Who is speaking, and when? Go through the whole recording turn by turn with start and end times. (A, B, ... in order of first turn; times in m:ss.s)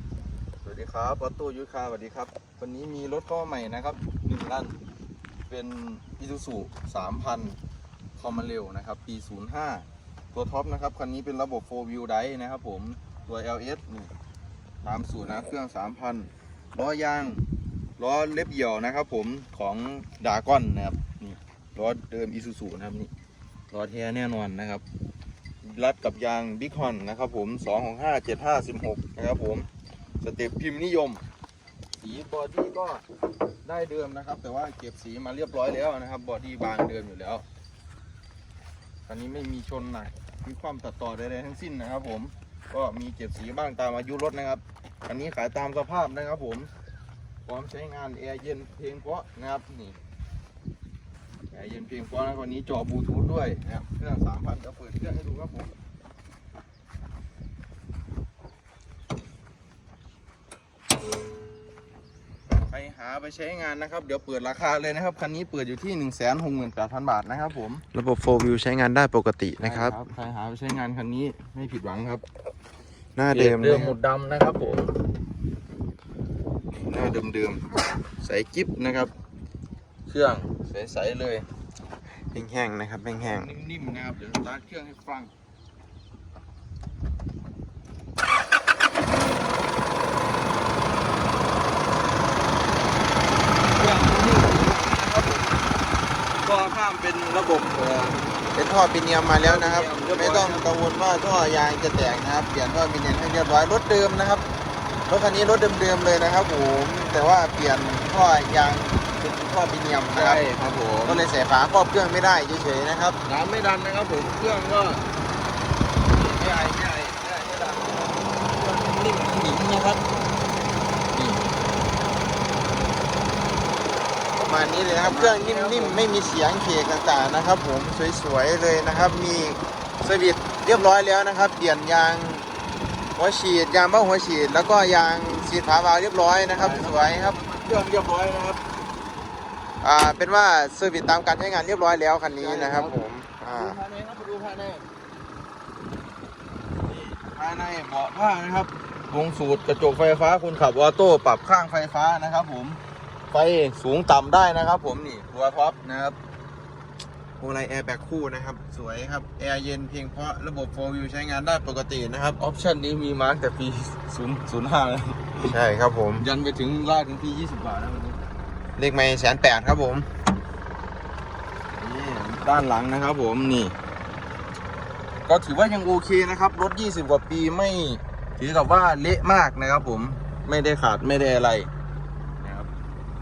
0:00.6-0:04.7 A
0:05.5-0:07.6 A
0:08.2-0:14.1 A
0:14.8-0:17.4 A
0:18.0-0:23.1 A
0:23.7-0:24.8 A
0:25.6-0:29.7 A
0:30.2-0:31.2 A
0:32.0-0:33.0 A
0:33.6-0:37.4 A
0:39.1-0:46.7 A
0:47.4-0:50.0 A
0:51.5-0:55.7 A
1:02.5-1:07.8 A
1:07.9-1:10.0 B
1:09.6-1:12.2 A
1:13.2-1:13.9 B
1:13.3-1:14.9 A
1:16.9-1:17.6 A
1:18.2-1:19.1 A
1:20.1-1:21.4 A
1:22.3-1:23.5 B
1:23.2-1:25.3 A
1:33.8-1:35.6 A
1:36.4-1:38.2 A
1:38.5-1:44.4 B
1:39.4-1:40.6 A
1:45.1-1:50.5 B
1:50.1-1:51.3 A
1:51.0-1:53.2 B
1:53.2-1:55.0 A
1:56.1-2:00.0 A
2:01.1-2:01.4 A
2:04.4-2:12.4 B
2:05.0-2:06.0 A
2:13.2-2:17.4 B
2:16.5-2:18.6 A
2:19.8-2:23.8 B
2:22.4-2:24.8 A
2:26.9-2:36.2 A
2:37.4-2:42.4 B
2:42.4-2:45.6 A
2:45.4-2:46.2 B
2:46.2-2:48.2 A
2:48.8-2:50.1 B
2:51.8-2:53.7 A
2:55.2-3:01.7 A
3:02.4-3:02.7 A